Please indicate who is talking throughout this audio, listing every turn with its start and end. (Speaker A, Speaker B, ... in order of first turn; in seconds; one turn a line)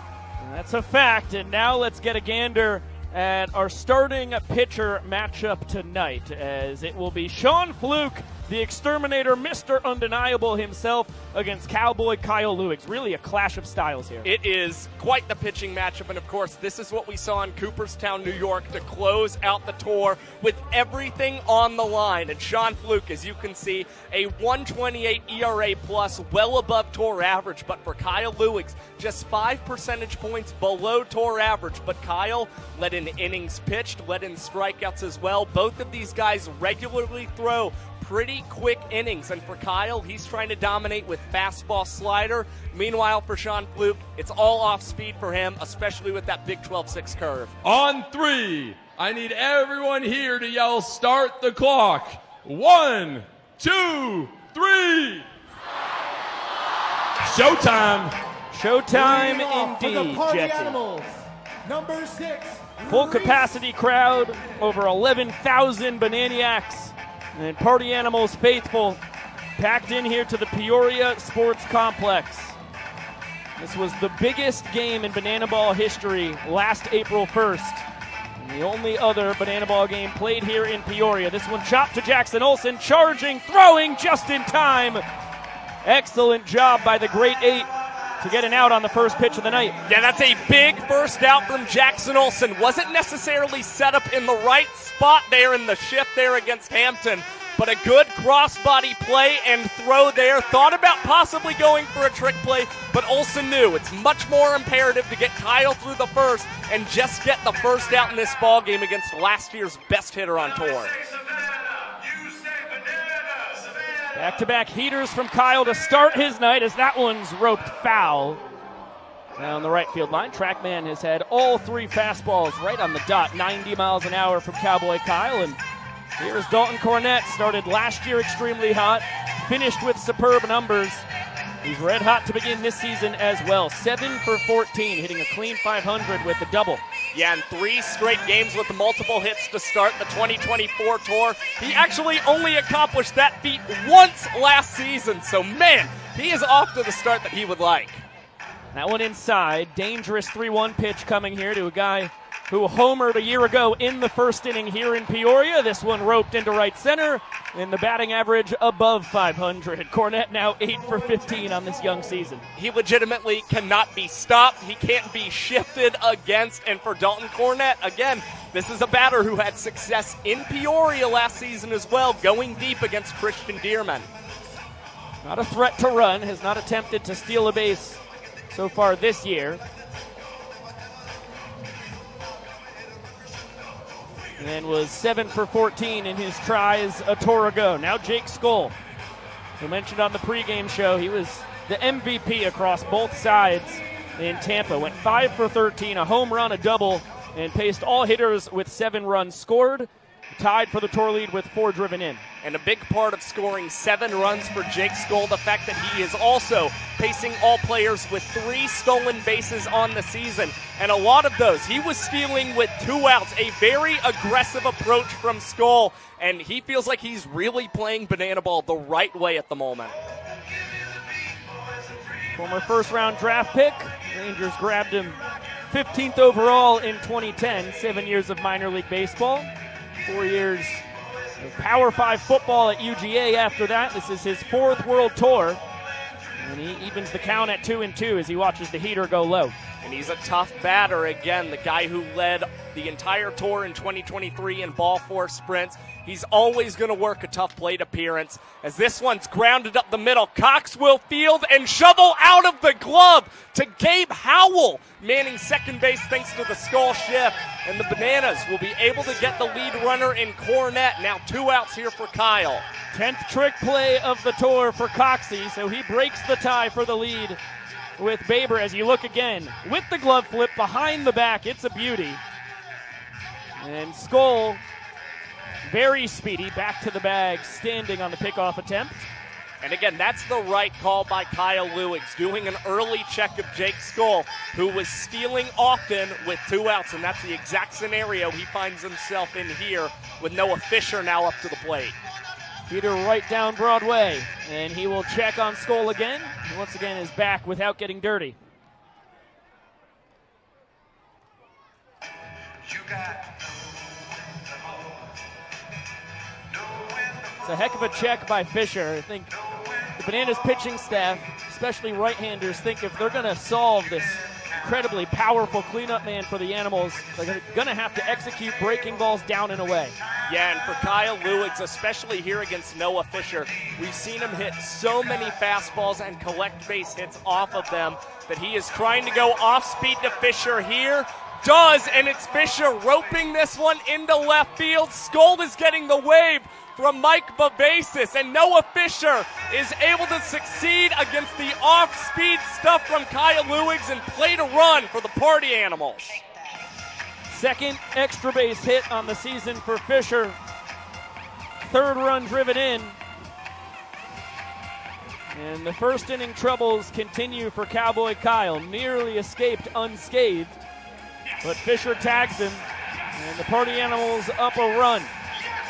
Speaker A: 0.4-14.3
Speaker B: 14.2-47.5
Speaker C: 47.6-55.3
Speaker C: 57.2-58.1
Speaker A: 58.5-60.8
Speaker D: 58.9-63.5
Speaker A: 62.8-69.0
Speaker A: 69.6-72.5
Speaker A: 73.6-77.8
Speaker A: 78.4-85.0
Speaker A: 85.8-89.8
Speaker B: 89.8-110.9
Speaker A: 114.1-118.4
Speaker A: 119.4-125.6
Speaker A: 126.2-131.0
Speaker A: 131.6-136.8
Speaker B: 137.1-148.0
Speaker A: 148.7-162.4
Speaker B: 162.6-174.1
Speaker A: 175.2-179.6
Speaker A: 184.4-188.7
Speaker A: 189.6-202.2
Speaker B: 202.4-219.9
Speaker A: 222.3-225.2
Speaker A: 225.7-229.5
Speaker A: 230.0-230.8
Speaker A: 231.4-235.6
Speaker A: 236.4-239.5
Speaker B: 239.8-262.6
Speaker A: 262.9-267.4
Speaker A: 268.0-272.2
Speaker A: 273.6-274.6
Speaker A: 275.6-279.1
Speaker B: 279.6-291.9
Speaker A: 292.7-298.4
Speaker A: 307.4-309.3
Speaker A: 309.9-319.9
Speaker B: 320.3-346.2
Speaker A: 347.3-350.4
Speaker A: 351.6-353.0
Speaker A: 355.3-360.6
Speaker A: 361.4-362.6
Speaker A: 363.1-365.1